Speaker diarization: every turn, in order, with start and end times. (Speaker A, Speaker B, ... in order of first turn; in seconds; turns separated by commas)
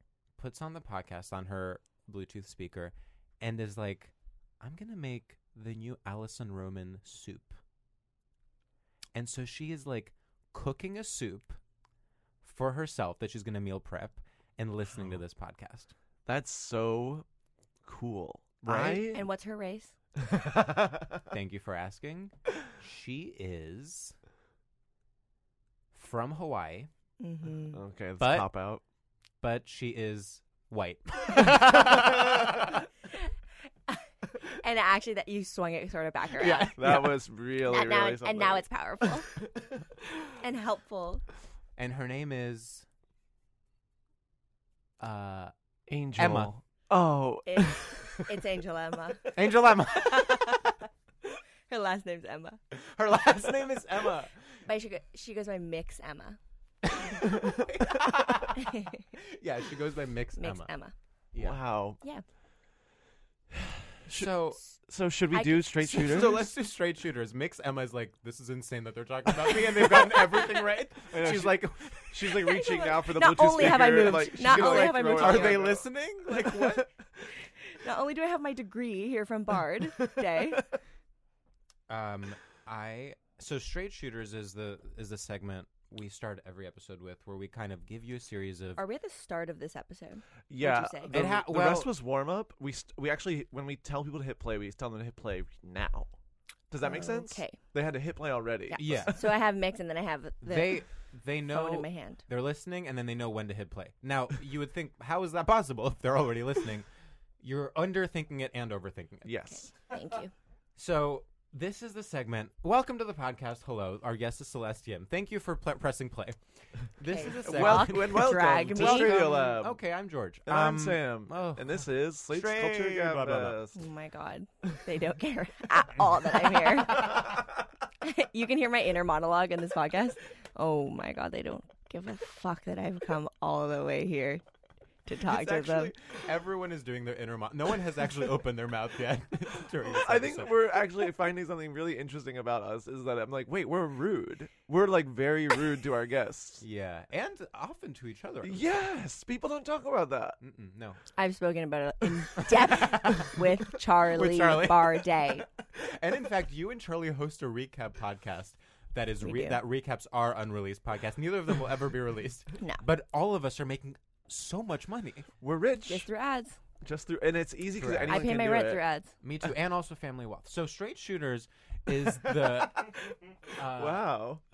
Speaker A: 0.4-7.6, Speaker A: 9.1-11.6, Speaker A: 12.4-15.9, Speaker B: 16.2-17.2, Speaker B: 17.8-19.2, Speaker A: 18.6-19.1, Speaker C: 19.1-19.9, Speaker B: 20.2-21.1, Speaker A: 21.3-24.1, Speaker A: 25.9-26.9, Speaker C: 27.2-27.8, Speaker B: 27.7-28.8, Speaker A: 28.2-28.5, Speaker A: 29.4-32.7, Speaker C: 33.9-36.7, Speaker A: 36.4-37.2, Speaker B: 36.8-38.6, Speaker C: 37.6-39.3, Speaker C: 40.4-41.2, Speaker A: 41.8-42.8, Speaker A: 45.0-45.5, Speaker B: 45.9-47.9, Speaker A: 46.1-46.5, Speaker C: 47.5-49.3, Speaker A: 49.3-50.7, Speaker C: 51.7-52.6, Speaker A: 52.7-54.3, Speaker C: 54.6-56.4, Speaker A: 56.9-58.7, Speaker C: 58.6-59.0, Speaker A: 59.2-60.7, Speaker C: 60.4-60.9, Speaker A: 61.3-61.6, Speaker B: 61.4-62.0, Speaker B: 63.5-66.4, Speaker A: 64.1-64.6, Speaker C: 65.3-66.0, Speaker A: 65.8-72.4, Speaker B: 71.0-75.8, Speaker C: 72.5-75.7, Speaker A: 74.2-76.9, Speaker B: 76.6-76.8, Speaker C: 77.7-80.6, Speaker A: 81.9-88.8, Speaker C: 88.8-91.1, Speaker B: 90.5-96.1, Speaker A: 91.1-91.9, Speaker B: 96.7-99.2, Speaker C: 96.8-97.6, Speaker C: 98.7-100.9, Speaker A: 98.8-99.2, Speaker A: 100.4-106.8, Speaker C: 101.5-102.2, Speaker A: 107.4-109.4, Speaker B: 109.2-109.7, Speaker C: 109.6-110.3, Speaker A: 110.8-116.4, Speaker A: 116.9-123.6, Speaker C: 117.1-119.2, Speaker B: 117.4-119.8, Speaker B: 120.5-123.8, Speaker C: 123.7-127.3, Speaker C: 128.0-134.4, Speaker C: 135.1-135.9, Speaker A: 135.3-140.8, Speaker B: 139.8-146.6, Speaker A: 146.6-148.6, Speaker B: 148.4-150.4, Speaker A: 150.4-151.0, Speaker C: 151.2-155.4, Speaker A: 152.3-153.4, Speaker A: 154.1-165.3, Speaker C: 159.2-159.6, Speaker C: 162.6-162.8, Speaker B: 165.4-166.1, Speaker C: 165.9-166.6, Speaker B: 166.8-168.8, Speaker A: 167.7-168.2, Speaker C: 168.1-169.1, Speaker A: 169.2-172.9, Speaker A: 173.5-174.1, Speaker B: 173.7-174.4